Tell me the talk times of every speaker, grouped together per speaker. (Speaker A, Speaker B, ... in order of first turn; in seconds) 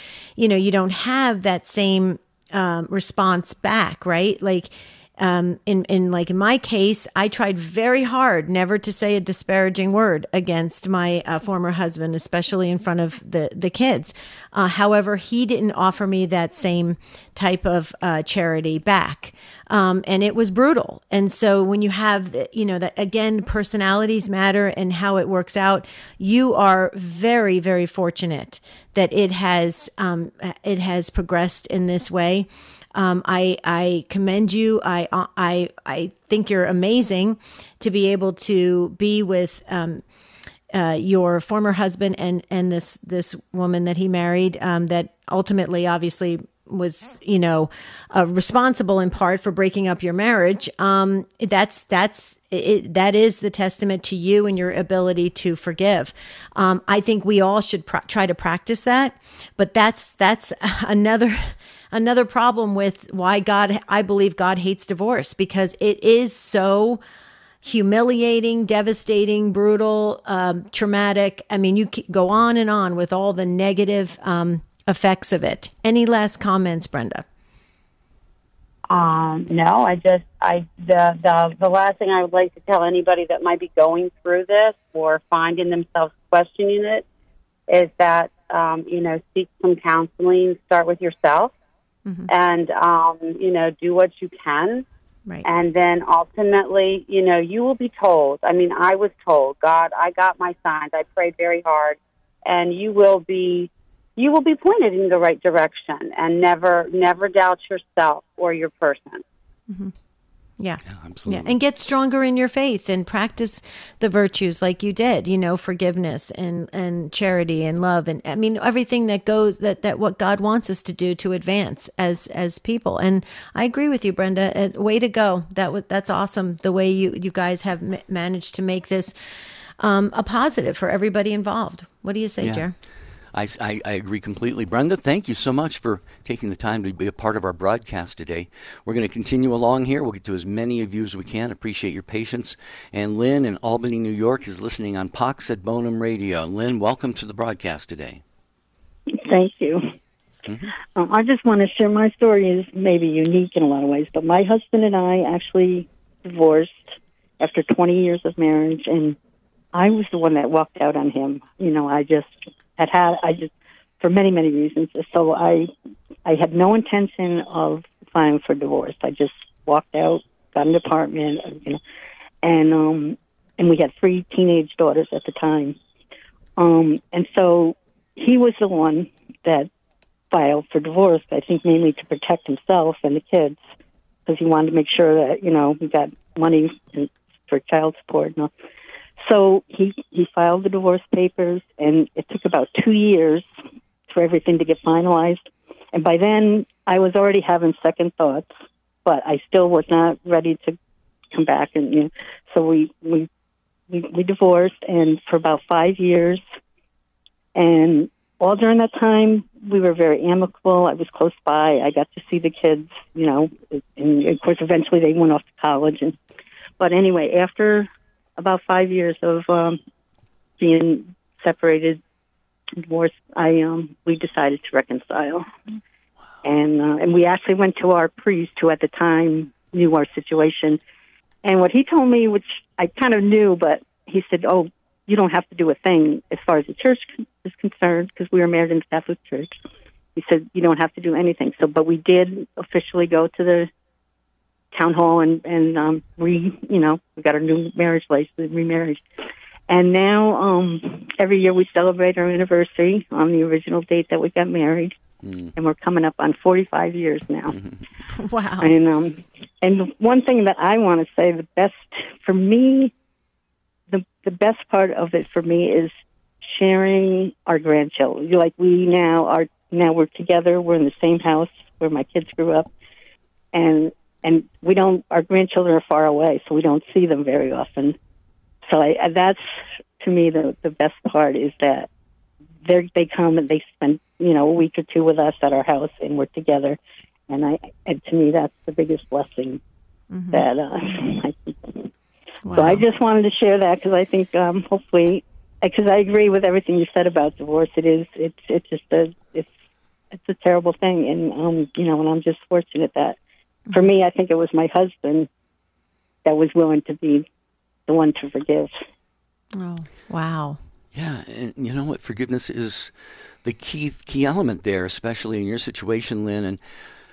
Speaker A: 0.4-40.0, 40.7-67.0, 67.6-77.2, 109.7-109.9, 110.6-129.1, 129.8-132.8, 258.1-258.7, 290.1-290.4, 292.4-292.8, 309.6-310.6
Speaker B: 78.9-87.0, 87.7-91.5, 92.3-94.9, 95.4-109.2
Speaker C: 110.9-111.5, 132.4-132.6, 133.3-148.2, 150.4-150.7, 255.2-255.5, 310.9-312.9, 313.4-316.6
Speaker D: 149.2-149.9, 150.9-159.2, 159.7-165.7, 166.2-171.8, 172.4-175.8, 176.6-179.7, 180.3-183.6, 184.3-188.5, 189.2-193.5, 194.1-198.5, 199.1-200.8, 201.3-203.3, 203.9-206.4, 207.6-216.2, 216.8-219.8, 220.6-222.0, 222.8-225.5, 226.4-230.8, 231.4-239.5, 240.2-243.7, 244.7-249.0, 249.7-255.0, 255.6-257.6, 258.6-262.9, 263.9-272.7, 273.5-278.0, 278.6-279.4, 280.0-281.9, 282.6-286.8, 287.3-289.6, 290.3-291.9, 292.5-299.6, 300.1-303.2, 303.7-305.3, 306.2-307.3, 307.9-308.7